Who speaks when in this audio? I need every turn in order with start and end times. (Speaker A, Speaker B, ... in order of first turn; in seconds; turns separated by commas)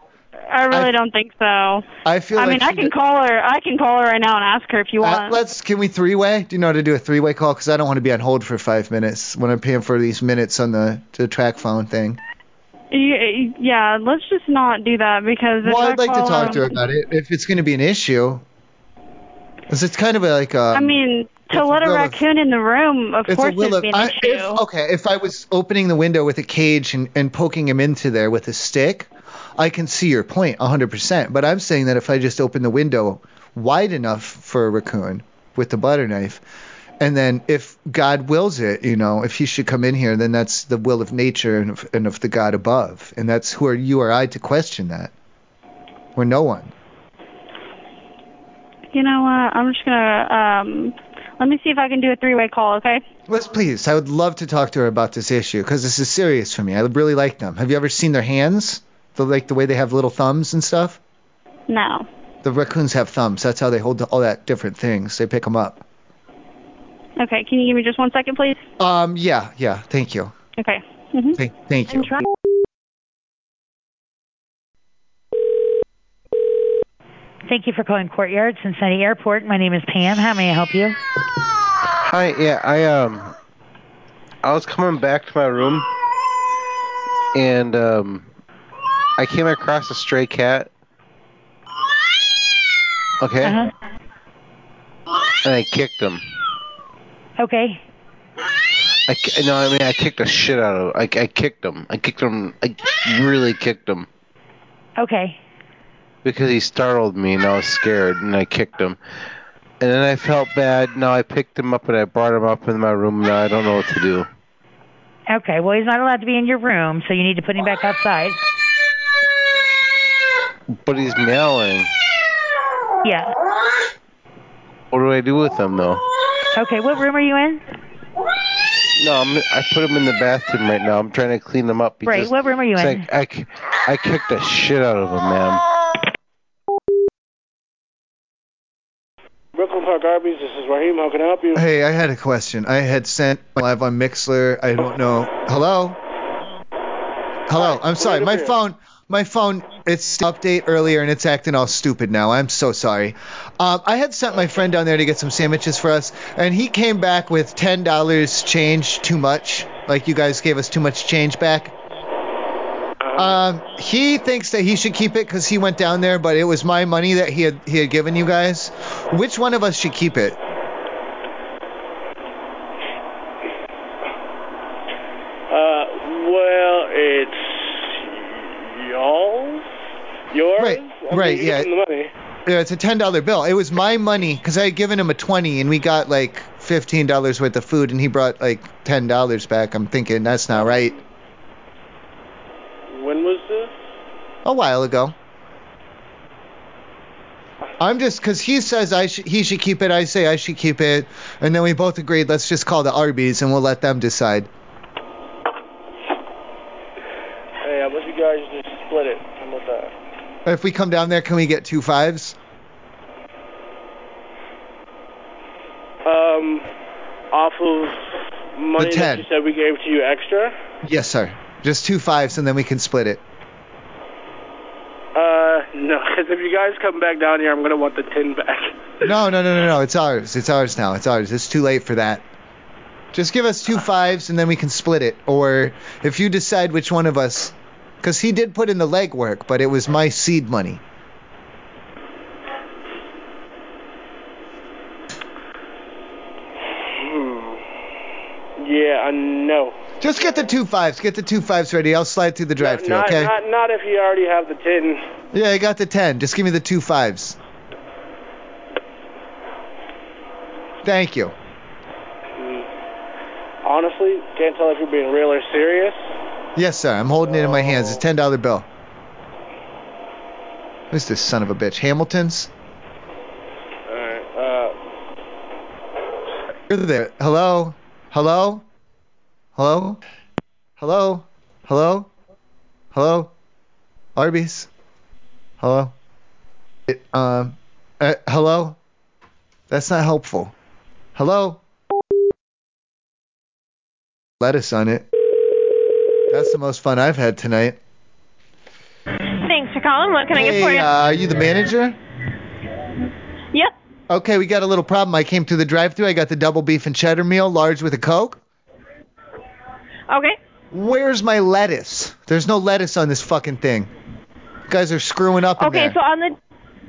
Speaker A: 0.5-5.4, Speaker B: 2.0-2.9, Speaker B: 5.0-12.2, Speaker A: 12.9-16.8, Speaker B: 15.6-18.4, Speaker B: 19.7-21.0, Speaker A: 20.7-24.6, Speaker B: 21.5-22.2, Speaker B: 23.3-36.4, Speaker B: 37.0-45.1, Speaker B: 46.1-46.7, Speaker A: 48.9-53.0, Speaker B: 53.3-61.0, Speaker A: 61.7-62.0, Speaker B: 62.4-65.8, Speaker A: 67.2-68.6, Speaker B: 68.8-70.3, Speaker A: 70.6-71.4, Speaker B: 71.4-72.2, Speaker C: 77.5-80.9, Speaker D: 82.0-83.3, Speaker D: 84.4-85.8, Speaker D: 87.3-88.2, Speaker D: 89.2-90.7, Speaker D: 93.2-93.7, Speaker D: 95.4-96.2, Speaker C: 97.4-97.7, Speaker D: 99.1-104.1, Speaker C: 105.0-105.3, Speaker D: 106.2-109.0, Speaker D: 109.8-114.2, Speaker C: 115.3-118.3, Speaker D: 120.8-121.9, Speaker D: 124.9-126.0, Speaker C: 126.6-127.6, Speaker D: 129.0-135.6, Speaker C: 132.1-132.9, Speaker E: 139.5-141.6, Speaker B: 141.5-146.0, Speaker B: 147.5-161.7, Speaker E: 147.5-148.5, Speaker E: 163.1-163.4, Speaker B: 163.2-170.4, Speaker E: 175.5-179.7, Speaker E: 180.3-182.1, Speaker B: 180.6-181.7, Speaker B: 182.4-191.0, Speaker E: 190.5-190.9, Speaker E: 192.9-193.7, Speaker B: 194.4-195.1, Speaker B: 197.8-204.5, Speaker E: 207.6-209.9, Speaker B: 210.4-212.3, Speaker E: 216.0-216.7, Speaker E: 217.3-218.0, Speaker E: 218.5-220.5, Speaker B: 218.8-219.3, Speaker B: 220.8-223.2, Speaker E: 225.1-228.7, Speaker B: 229.0-232.2, Speaker B: 233.1-240.8, Speaker E: 246.7-247.6, Speaker E: 248.6-250.5, Speaker B: 250.0-253.3, Speaker E: 252.6-255.0, Speaker B: 255.3-257.4, Speaker B: 260.8-261.3, Speaker E: 262.4-262.6, Speaker E: 263.6-266.0, Speaker B: 266.6-268.7, Speaker E: 267.2-268.0, Speaker B: 270.9-272.5, Speaker E: 273.9-274.7, Speaker B: 276.7-278.6, Speaker B: 279.6-280.0, Speaker B: 280.8-282.1, Speaker B: 282.9-283.3, Speaker B: 284.1-284.7, Speaker B: 285.6-285.9, Speaker B: 286.9-288.8, Speaker B: 289.7-290.5, Speaker B: 291.1-291.6, Speaker B: 294.4-295.1, Speaker B: 296.3-297.8, Speaker F: 299.4-300.9, Speaker B: 300.3-302.0, Speaker B: 304.1-308.4, Speaker F: 310.1-310.4, Speaker B: 310.7-313.9, Speaker B: 314.7-315.9, Speaker F: 315.6-316.4